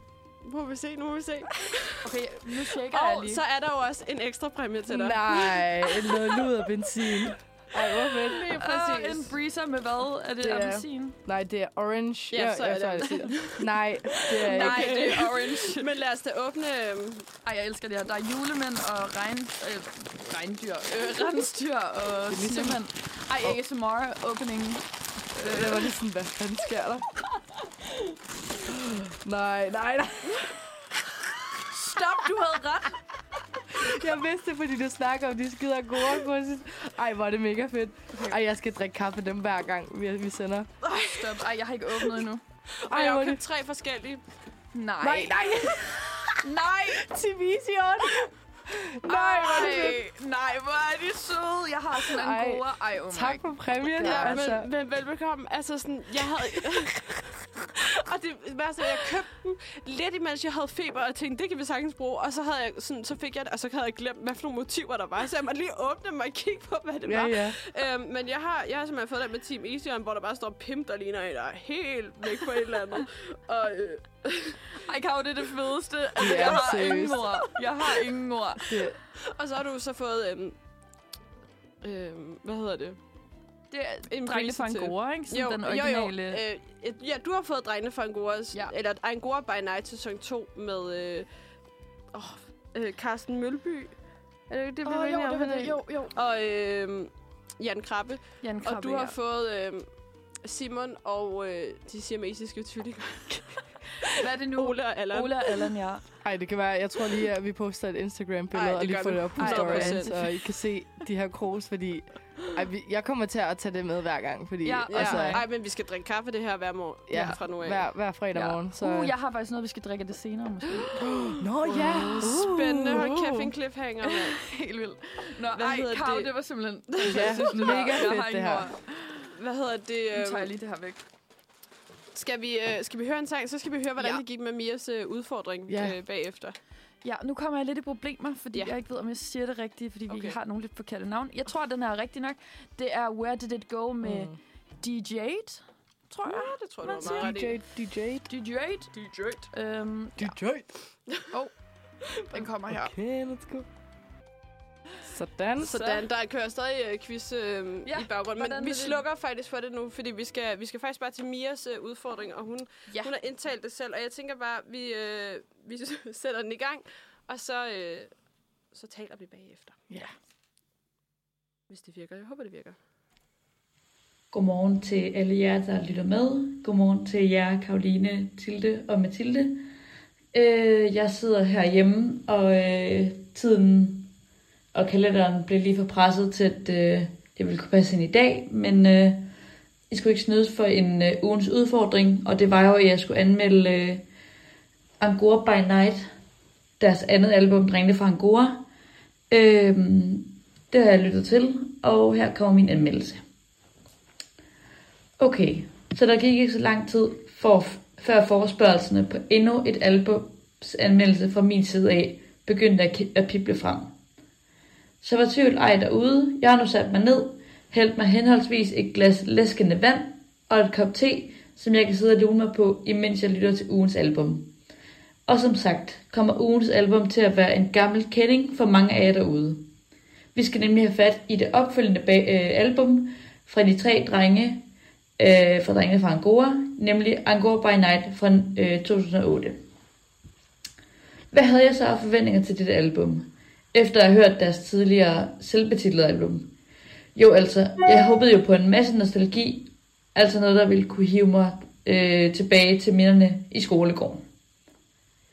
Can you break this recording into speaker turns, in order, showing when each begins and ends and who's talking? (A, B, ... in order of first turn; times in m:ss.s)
0:00.4-0:06.2 A
0:02.0-0:03.4 B
0:04.9-0:08.4 C
0:08.2-0:09.4 A
0:08.5-0:11.2 B
0:10.4-0:10.8 A
0:11.2-0:15.2 C
0:12.3-0:17.3 A
0:14.4-0:15.8 B
0:17.4-0:25.7 B
0:22.3-0:22.8 C
0:25.4-0:27.1 C
0:28.6-0:30.5 C
0:31.7-0:33.0 B
0:33.7-0:40.7 C
0:40.8-0:42.4 B
0:41.0-0:41.4 A
0:42.8-0:44.2 A
0:42.9-0:43.4 C
0:44.7-0:45.8 B
0:45.0-0:46.3 C
0:46.4-0:47.0 B
0:47.0-0:48.1 C
0:48.7-0:50.0 C
0:49.0-0:54.5 B
0:49.3-0:50.0 A
0:52.1-0:54.7 C
0:54.0-1:14.6 A
1:07.0-1:07.6 C
1:14.7-1:18.8 B
1:16.2-1:17.2 C
1:16.2-1:16.6 A
1:18.7-1:19.0 C
1:19.3-1:20.6 A
1:21.8-1:23.0 A
1:23.7-1:26.4 B
1:24.1-1:31.3 A
1:32.1-1:34.0 A
1:34.5-1:39.9 A
1:34.8-1:36.1 B
1:38.4-1:39.2 B
1:40.4-1:45.7 A
1:44.2-1:46.0 B
1:46.2-1:55.4 C
1:48.5-1:50.2 A
1:49.4-1:50.3 B
1:54.6-1:55.4 B
1:54.9-1:57.9 A
1:57.1-1:59.1 C
1:57.1-1:57.4 B
1:58.3-2:02.4 B
2:01.0-2:03.5 C
2:01.7-2:04.4 A
2:04.1-2:09.3 B
2:05.5-2:06.3 A
2:06.9-2:08.1 A
2:07.1-2:08.7 C
2:09.3-2:10.5 A
2:10.1-2:11.0 B
2:12.1-2:16.6 A
2:15.7-2:16.0 C
2:17.0-2:27.4 B
2:20.1-2:20.4 A
2:24.0-2:24.4 C
2:26.2-2:27.6 A
2:26.9-2:28.3 C
2:28.3-2:28.9 B
2:28.9-2:29.5 A
2:29.5-2:30.4 B
2:30.2-2:30.7 C
2:32.3-2:32.9 B
2:32.7-2:33.7 C
2:35.0-2:35.8 C
2:35.6-2:48.1 A
2:35.7-2:36.0 B
2:37.8-2:39.0 B
2:42.9-2:43.1 B
2:48.7-2:49.8 A
2:51.7-2:52.8 A
2:54.3-2:59.7 D
3:00.3-3:04.1 D
3:04.7-3:09.3 D
3:09.9-3:14.0 D
3:15.0-3:16.1 D
3:16.8-3:18.6 D
3:19.3-3:23.2 D
3:25.2-3:33.9 D
3:35.0-3:44.5 D
3:45.3-3:49.7 D
3:50.3-3:54.6 D
3:55.2-3:59.6 D
4:01.3-4:06.5 D
4:07.1-4:14.2 D